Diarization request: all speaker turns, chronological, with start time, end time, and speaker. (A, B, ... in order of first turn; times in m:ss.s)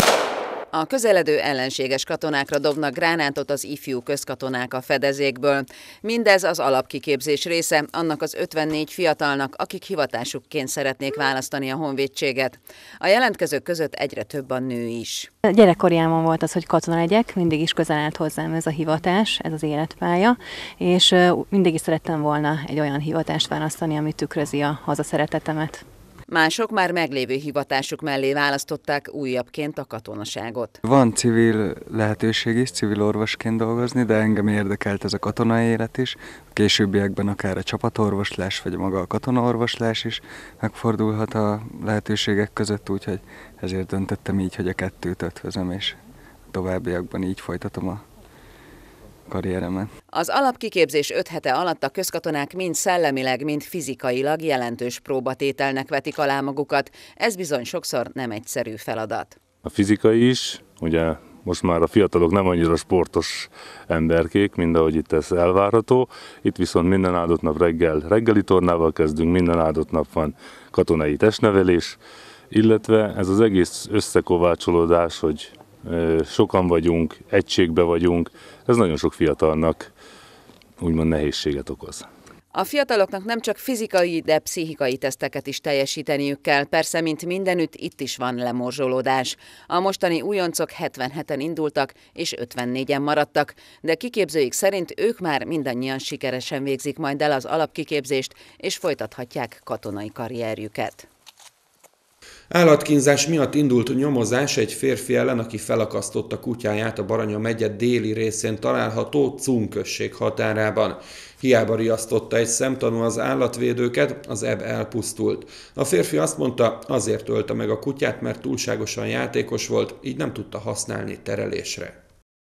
0:00.7-0:15.3 A
0:15.5-0:25.7 B
0:26.3-0:30.8 A
0:30.8-0:46.0 C
0:46.5-0:48.0 C
0:49.3-0:49.9 C
0:50.1-0:59.4 A
0:59.6-1:12.0 D
1:12.5-1:19.9 D
1:20.8-1:22.1 D
1:22.5-1:41.1 A
1:42.5-2:02.0 E